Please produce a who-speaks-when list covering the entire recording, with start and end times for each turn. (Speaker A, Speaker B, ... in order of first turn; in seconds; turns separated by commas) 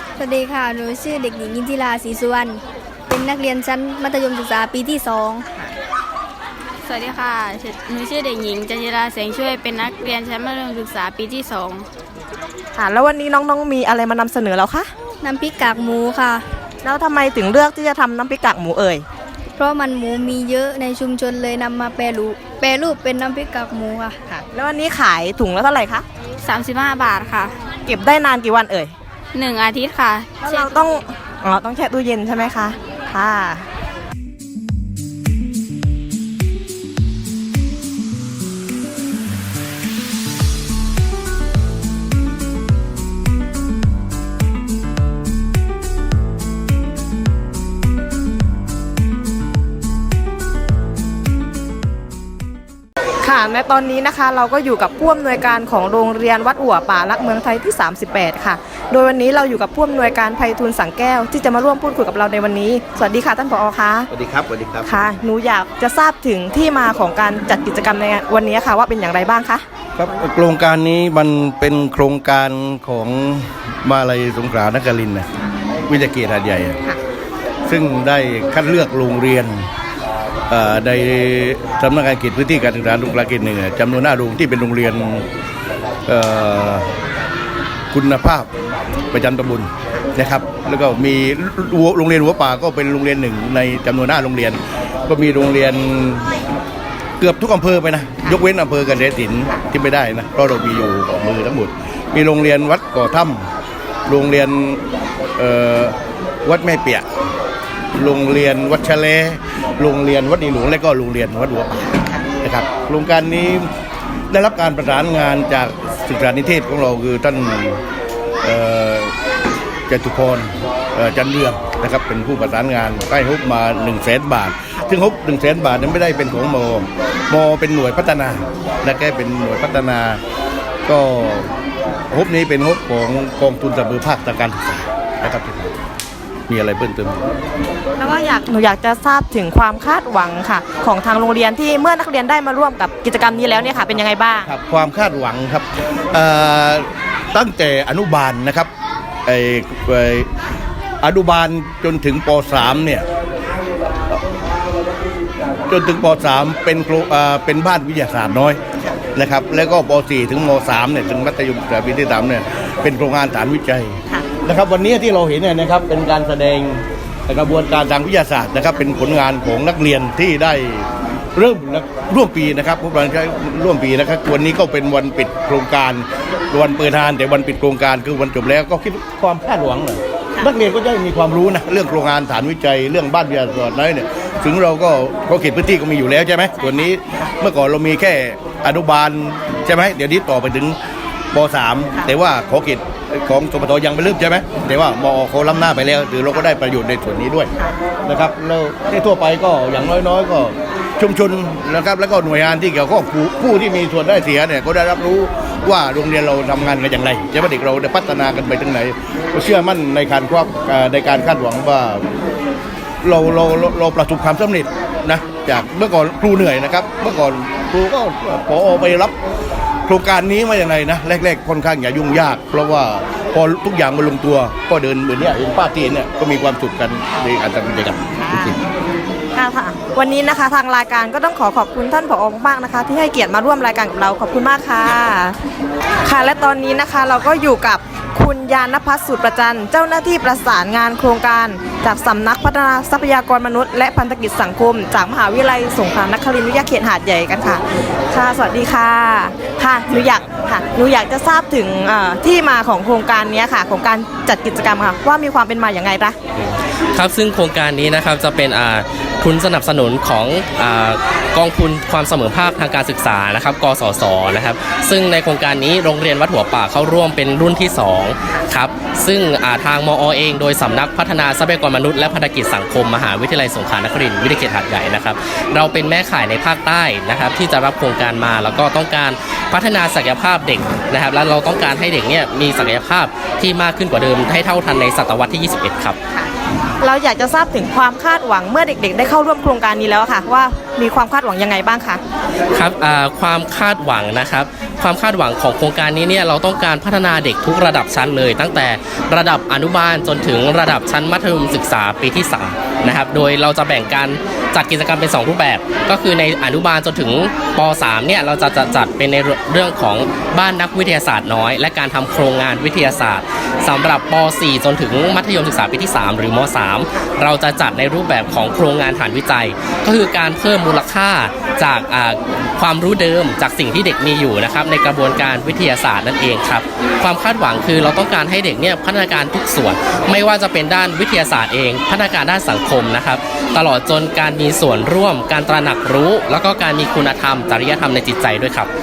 Speaker A: 0.2-5.7, Speaker B: 6.8-11.9, Speaker C: 12.8-14.9, Speaker A: 15.2-16.4, Speaker C: 16.8-19.1, Speaker A: 19.6-24.2, Speaker C: 24.3-26.1, Speaker B: 26.4-27.6, Speaker C: 27.9-28.9, Speaker B: 29.3-30.6, Speaker C: 30.4-33.7, Speaker C: 53.2-64.1, Speaker D: 64.1-64.9, Speaker C: 64.8-69.7, Speaker D: 70.0-75.3, Speaker D: 75.9-76.8, Speaker D: 77.7-79.7, Speaker D: 80.5-85.3, Speaker D: 86.1-86.9, Speaker D: 87.9-88.5, Speaker D: 89.1-96.4, Speaker D: 97.2-103.5, Speaker D: 104.1-104.8, Speaker D: 105.4-107.1, Speaker D: 108.0-113.7, Speaker D: 114.3-117.8, Speaker D: 118.4-119.2, Speaker D: 119.9-130.2, Speaker D: 130.9-131.5, Speaker D: 132.1-135.7, Speaker D: 136.5-137.3, Speaker C: 138.0-144.5, Speaker D: 144.5-148.7, Speaker D: 149.2-150.3, Speaker D: 151.0-153.1, Speaker D: 155.7-158.6, Speaker D: 159.1-190.8, Speaker D: 191.3-197.5, Speaker D: 198.1-212.1, Speaker D: 213.0-219.2, Speaker D: 219.9-228.6, Speaker C: 228.2-228.5, Speaker C: 229.3-235.4, Speaker C: 236.0-256.2, Speaker E: 256.5-286.0, Speaker C: 286.1-292.0, Speaker E: 292.5-338.7